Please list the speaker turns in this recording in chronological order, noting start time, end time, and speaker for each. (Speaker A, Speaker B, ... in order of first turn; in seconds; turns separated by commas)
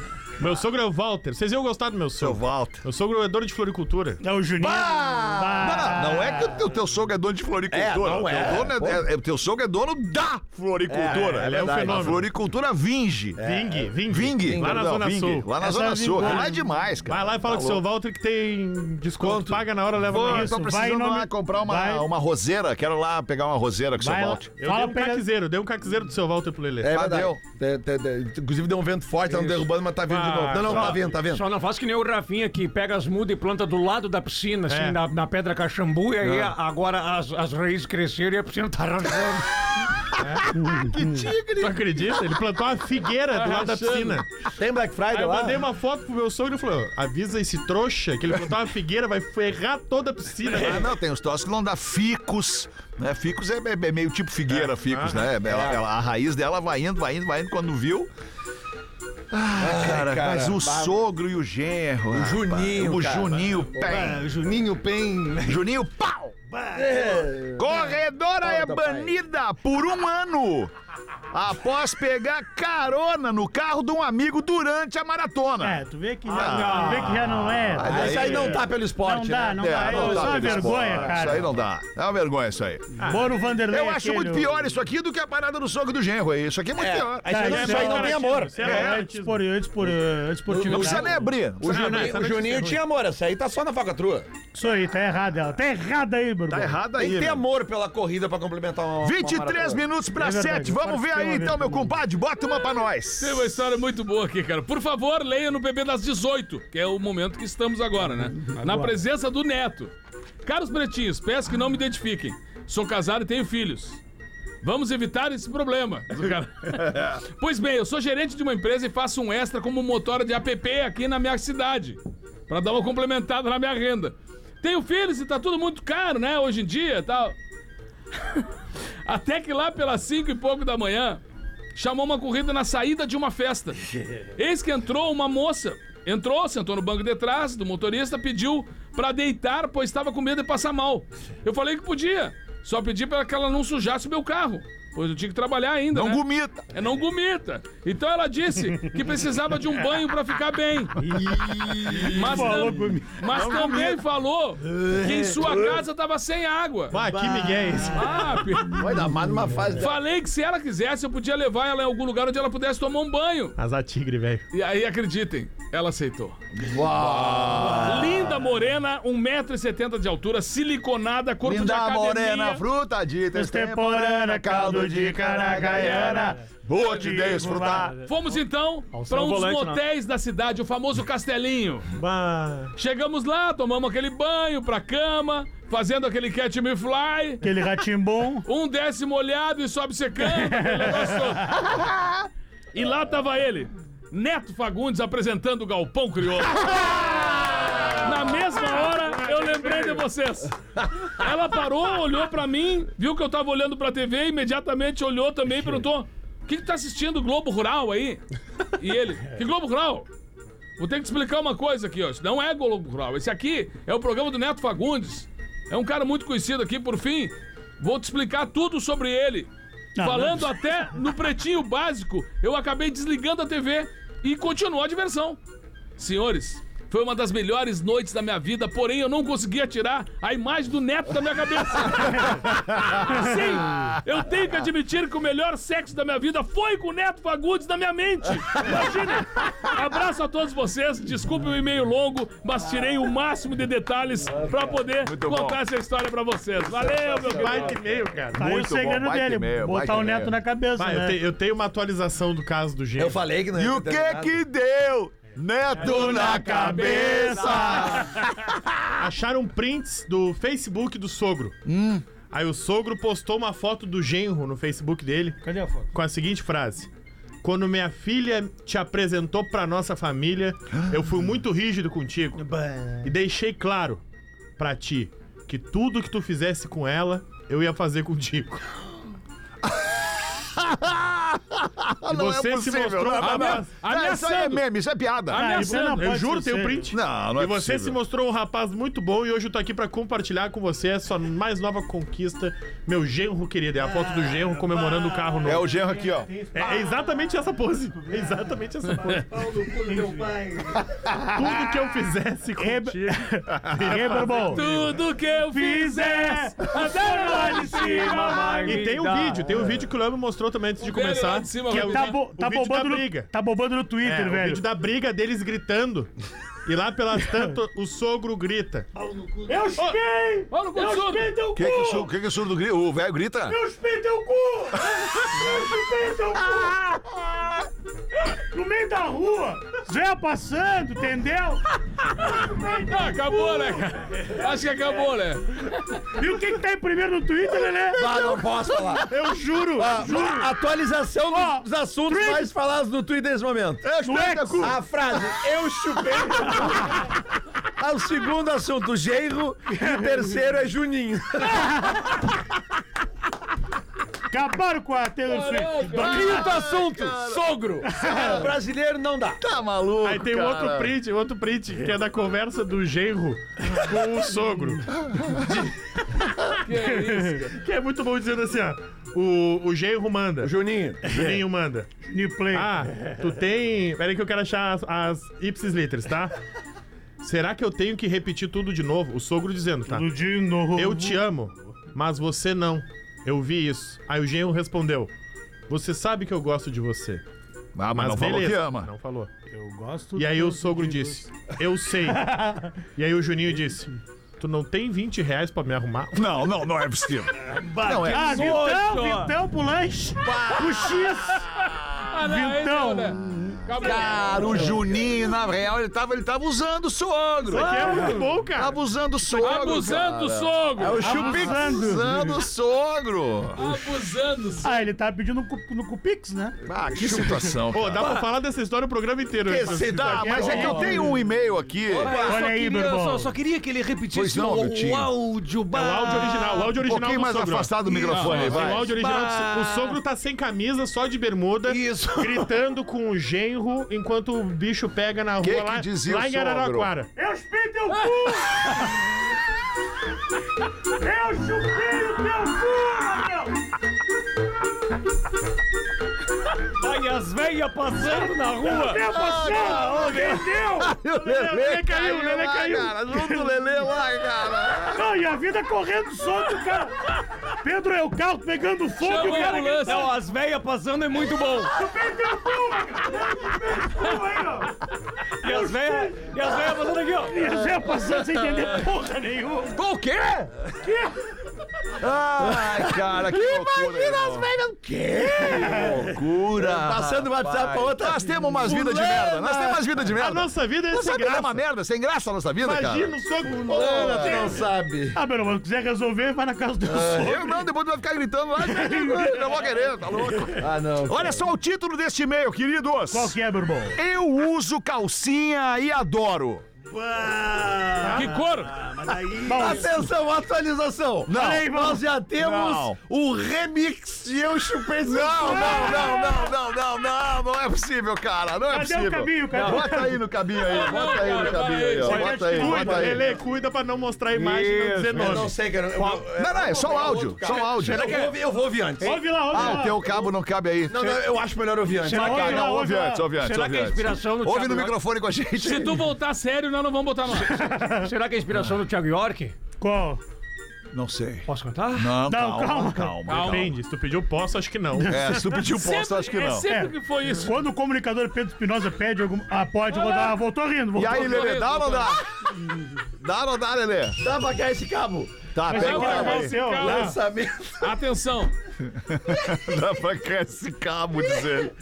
Speaker A: 0.4-4.2, Speaker B: 2.2-2.8, Speaker C: 4.2-6.5, Speaker D: 4.6-5.9, Speaker B: 5.6-13.4, Speaker D: 7.7-9.0, Speaker D: 10.9-12.2, Speaker A: 11.2-12.3, Speaker D: 13.4-14.8, Speaker A: 13.4-15.5, Speaker B: 14.1-17.8, Speaker C: 15.6-16.6, Speaker A: 17.1-20.5, Speaker D: 19.2-19.6, Speaker B: 20.1-24.5, Speaker C: 20.2-22.1, Speaker C: 24.0-25.3, Speaker A: 24.6-27.0, Speaker D: 26.8-31.4, Speaker B: 26.9-27.4, Speaker E: 29.3-29.7, Speaker A: 30.1-31.0, Speaker E: 30.6-39.5, Speaker A: 34.7-35.0, Speaker A: 40.2-40.6, Speaker C: 40.6-40.9, Speaker B: 40.6-42.0, Speaker A: 41.6-44.3, Speaker F: 43.3-44.2, Speaker D: 44.6-45.7, Speaker A: 45.1-50.9, Speaker D: 50.5-50.8, Speaker B: 50.5-58.1, Speaker A: 54.5-55.3, Speaker D: 55.4-55.8, Speaker B: 59.3-64.3, Speaker D: 59.6-61.0, Speaker D: 62.1-63.9, Speaker E: 63.8-65.5, Speaker B: 65.4-66.3, Speaker E: 66.5-67.3, Speaker D: 66.8-69.2, Speaker B: 67.6-70.7, Speaker B: 71.3-78.7, Speaker C: 75.6-81.5, Speaker E: 76.3-77.4, Speaker D: 77.8-81.5, Speaker B: 79.6-82.9, Speaker C: 83.0-84.5, Speaker A: 83.0-83.3, Speaker B: 83.6-87.8, Speaker D: 86.8-88.7, Speaker C: 87.3-91.2, Speaker A: 87.3-89.4, Speaker B: 88.6-89.0, Speaker B: 90.5-92.2, Speaker D: 90.5-94.3, Speaker A: 91.6-92.8, Speaker C: 94.5-96.8, Speaker B: 96.5-97.4, Speaker D: 97.0-99.8, Speaker B: 99.0-103.6, Speaker C: 100.2-102.0, Speaker F: 103.2-109.9, Speaker C: 108.2-108.9, Speaker F: 110.4-114.0, Speaker F: 114.6-127.3, Speaker F: 128.2-128.4, Speaker F: 129.1-131.2, Speaker F: 131.8-133.8, Speaker F: 134.4-151.0, Speaker B: 145.9-146.7, Speaker C: 151.1-153.4, Speaker B: 151.2-152.4, Speaker D: 151.5-152.4, Speaker F: 152.0-157.0, Speaker B: 153.3-154.0, Speaker D: 154.7-155.8, Speaker A: 156.9-158.3, Speaker D: 157.0-157.8, Speaker F: 157.9-158.9, Speaker D: 158.8-159.9, Speaker F: 159.8-163.6, Speaker A: 163.6-164.4, Speaker F: 164.5-166.4, Speaker D: 166.6-168.3, Speaker F: 167.7-172.6, Speaker B: 171.4-178.0, Speaker C: 173.3-177.9, Speaker F: 178.1-181.9, Speaker E: 179.1-179.8, Speaker A: 182.0-182.7, Speaker F: 182.8-187.5, Speaker C: 187.4-188.5, Speaker F: 188.4-191.8, Speaker C: 190.2-191.3, Speaker F: 192.7-197.4, Speaker F: 198.0-208.2, Speaker F: 208.8-210.1, Speaker F: 210.8-225.4, Speaker C: 220.0-220.6, Speaker F: 226.0-247.8, Speaker D: 244.3-244.8, Speaker B: 245.0-245.6, Speaker D: 246.6-247.8, Speaker A: 247.3-248.5, Speaker B: 248.3-250.4, Speaker C: 248.3-251.2, Speaker A: 250.8-253.2, Speaker D: 253.0-254.4, Speaker B: 253.6-258.8, Speaker C: 255.8-258.1, Speaker D: 255.8-258.1, Speaker A: 259.0-261.6, Speaker B: 261.6-262.1, Speaker A: 262.3-265.4, Speaker C: 265.4-265.9, Speaker A: 265.9-266.9, Speaker A: 267.4-272.5, Speaker C: 272.4-273.0, Speaker A: 273.0-274.0, Speaker A: 274.6-278.6, Speaker B: 279.6-285.4, Speaker A: 282.1-283.7, Speaker F: 283.2-284.6, Speaker F: 285.3-286.2, Speaker C: 285.3-286.9, Speaker A: 285.6-295.7, Speaker B: 286.9-288.0, Speaker E: 294.7-295.4, Speaker B: 295.4-296.3, Speaker C: 296.3-297.0, Speaker A: 296.5-299.3, Speaker E: 299.1-300.8, Speaker C: 299.9-300.3, Speaker A: 301.3-304.7, Speaker C: 302.6-304.7, Speaker F: 304.3-308.6, Speaker C: 305.5-308.8, Speaker E: 307.3-309.8, Speaker A: 308.6-313.3, Speaker F: 310.8-312.1, Speaker C: 311.7-314.6, Speaker A: 314.0-316.1, Speaker A: 316.6-318.9, Speaker E: 319.0-319.8, Speaker C: 319.5-322.1, Speaker F: 320.5-321.3, Speaker B: 321.6-323.6, Speaker C: 323.5-327.2, Speaker C: 328.5-331.6, Speaker C: 332.2-333.9, Speaker F: 332.8-335.7, Speaker C: 336.1-338.0, Speaker D: 337.9-339.2, Speaker B: 338.0-338.4, Speaker A: 339.0-340.2, Speaker D: 339.8-343.9, Speaker C: 340.1-340.4, Speaker C: 341.3-342.5, Speaker B: 343.8-344.8, Speaker C: 344.0-344.7, Speaker D: 344.6-347.0, Speaker D: 347.8-351.8, Speaker C: 351.7-351.9, Speaker C: 354.3-356.6, Speaker F: 355.3-356.4, Speaker E: 356.0-357.1, Speaker B: 356.0-357.4, Speaker D: 356.0-359.4, Speaker C: 357.8-358.5, Speaker B: 359.4-360.9, Speaker A: 360.0-364.9, Speaker B: 365.2-365.5, Speaker F: 366.6-367.6, Speaker A: 367.1-371.9, Speaker D: 370.4-371.3, Speaker C: 372.1-373.0, Speaker A: 372.5-376.3, Speaker A: 377.2-380.1, Speaker C: 379.9-381.2, Speaker A: 380.8-385.1, Speaker A: 385.7-387.2, Speaker B: 387.8-388.9, Speaker A: 387.9-389.3, Speaker C: 389.5-391.2, Speaker A: 390.2-396.3, Speaker C: 392.0-392.7, Speaker B: 396.1-398.6, Speaker E: 397.5-399.3, Speaker C: 397.9-401.5, Speaker B: 400.2-401.4, Speaker F: 402.0-404.5, Speaker C: 402.2-403.2, Speaker B: 403.7-413.6, Speaker A: 407.5-408.8, Speaker E: 407.7-408.2, Speaker F: 409.4-411.0, Speaker D: 410.8-411.6, Speaker C: 411.0-412.4, Speaker F: 413.6-414.9, Speaker C: 414.6-416.6, Speaker B: 416.7-418.1, Speaker D: 417.0-417.5, Speaker A: 417.7-420.9, Speaker D: 419.5-421.1, Speaker B: 419.6-422.3, Speaker C: 420.2-421.2, Speaker D: 421.9-422.4, Speaker E: 421.9-426.8, Speaker C: 422.2-423.3, Speaker B: 424.1-425.1, Speaker A: 425.7-437.1, Speaker B: 426.7-428.9, Speaker E: 427.9-430.0, Speaker F: 428.1-428.6, Speaker E: 431.6-432.5, Speaker B: 435.4-436.9, Speaker C: 437.2-439.0, Speaker F: 437.9-438.5, Speaker C: 441.0-443.6, Speaker E: 446.8-449.1, Speaker C: 448.6-450.9, Speaker D: 449.2-450.2, Speaker B: 449.5-449.7, Speaker E: 450.1-450.4, Speaker B: 450.9-454.9, Speaker A: 451.2-453.4, Speaker D: 451.6-453.9, Speaker D: 454.6-454.9, Speaker C: 454.9-457.1, Speaker C: 457.6-460.1, Speaker F: 459.0-460.1, Speaker E: 459.2-461.7, Speaker C: 461.7-464.8, Speaker E: 465.4-467.6, Speaker C: 465.4-466.4, Speaker C: 467.3-469.8, Speaker D: 469.8-470.5, Speaker B: 472.0-474.5, Speaker D: 472.4-479.9, Speaker B: 475.4-483.1, Speaker A: 480.1-481.6, Speaker A: 482.6-484.4, Speaker D: 483.6-485.2, Speaker C: 483.7-484.6, Speaker B: 483.7-484.6, Speaker C: 485.1-487.6, Speaker D: 486.8-487.4, Speaker B: 487.1-493.4, Speaker C: 488.6-489.5, Speaker D: 490.5-491.5, Speaker C: 493.1-494.0, Speaker B: 493.9-496.6, Speaker E: 497.2-499.8, Speaker C: 498.0-498.3, Speaker F: 498.0-498.8, Speaker C: 499.4-500.1, Speaker D: 499.4-506.3, Speaker B: 501.3-503.0, Speaker C: 501.3-502.1, Speaker B: 505.0-513.3, Speaker C: 505.4-506.3, Speaker C: 508.7-510.2, Speaker E: 509.5-509.9, Speaker F: 510.6-512.4, Speaker D: 511.1-512.2, Speaker C: 512.0-513.1, Speaker A: 512.3-515.5, Speaker E: 514.3-516.3, Speaker D: 515.1-520.2, Speaker B: 516.4-518.1, Speaker E: 517.7-518.4, Speaker C: 519.0-520.0, Speaker B: 519.5-521.1, Speaker D: 520.9-522.6, Speaker C: 522.0-523.3, Speaker E: 522.1-522.6, Speaker B: 522.2-526.0, Speaker E: 523.3-525.0, Speaker F: 525.6-527.5, Speaker C: 527.4-528.1, Speaker E: 527.8-529.6, Speaker C: 529.8-530.2, Speaker B: 530.9-533.7, Speaker E: 531.5-532.2, Speaker C: 532.2-533.2, Speaker F: 533.3-533.7, Speaker A: 533.4-535.3, Speaker C: 535.0-535.5, Speaker B: 535.1-536.7, Speaker F: 535.6-537.6, Speaker C: 536.7-541.5, Speaker F: 539.9-540.4, Speaker B: 541.0-542.2, Speaker F: 541.0-542.2, Speaker B: 543.2-544.2, Speaker D: 544.2-547.9, Speaker B: 545.5-546.5, Speaker C: 545.7-547.2, Speaker F: 545.7-547.1, Speaker F: 547.8-548.5, Speaker B: 548.8-551.7